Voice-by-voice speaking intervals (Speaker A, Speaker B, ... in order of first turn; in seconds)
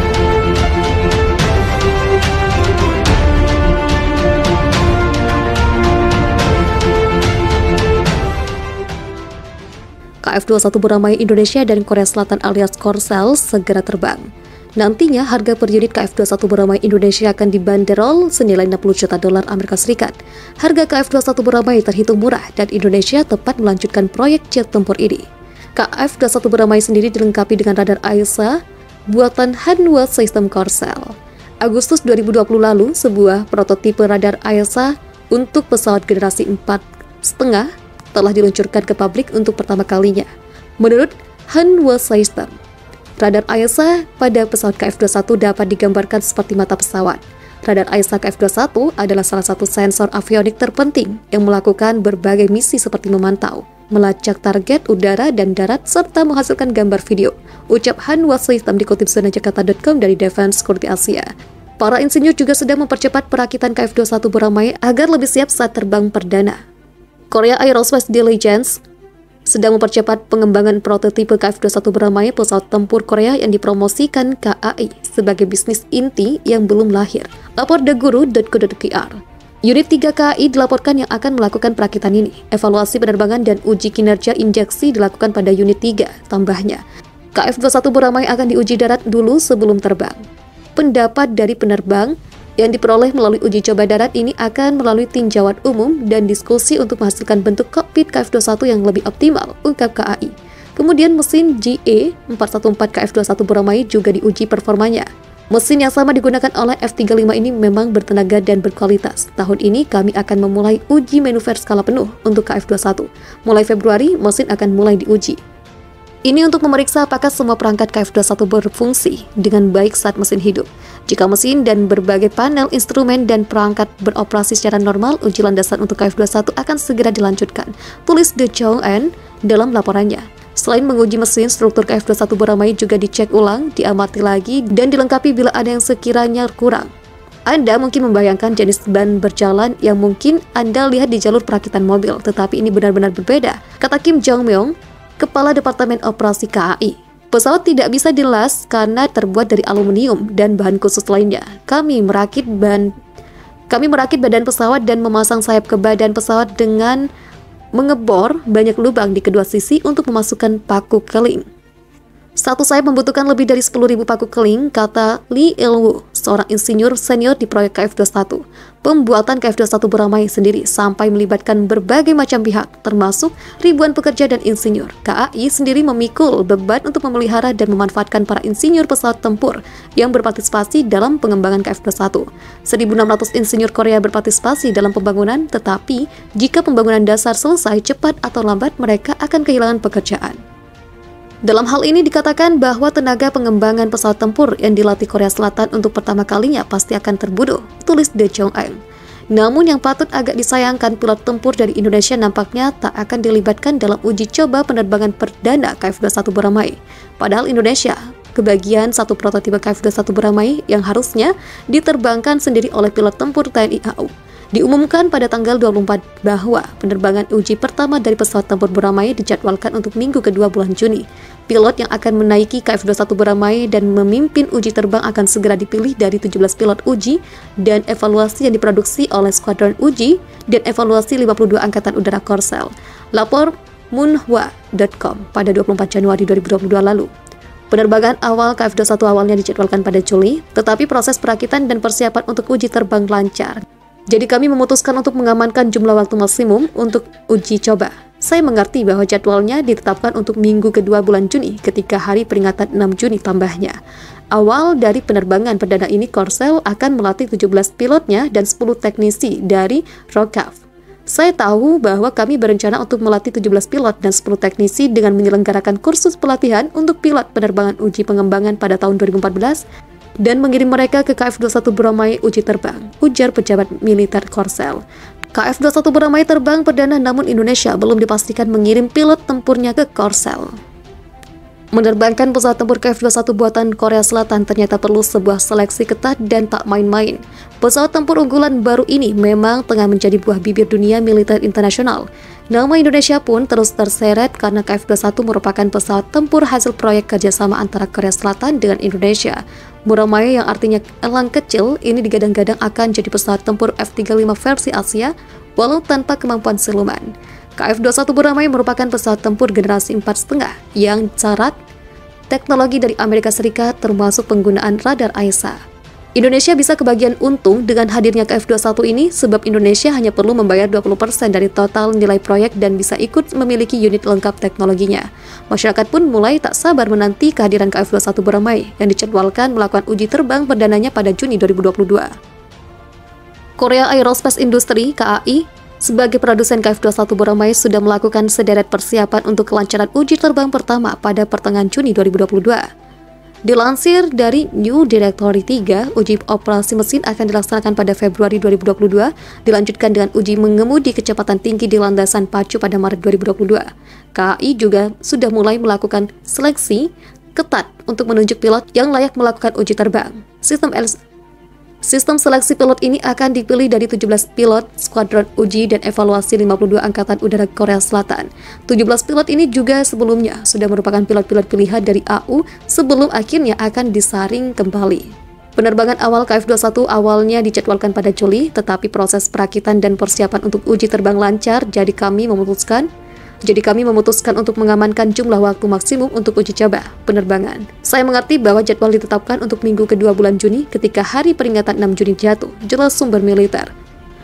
Speaker A: 10.2-25.2, 25.8-40.3, 40.8-42.5, 43.2-66.6, 67.3-68.8, 69.5-86.8, 87.3-90.2, 90.8-115.4, 116.3-136.9, 137.5-152.9, 153.7-157.1, 157.8-161.4, 162.4-190.4, 191.4-198.8, 199.3-237.1, 237.7-253.8, 254.3-269.6, 270.2-274.8, 275.3-280.6, 281.7-311.6, 312.3-315.6, 316.2-332.1, 333.6-342.7, 343.4-361.0, 361.8-382.9, 383.4-393.7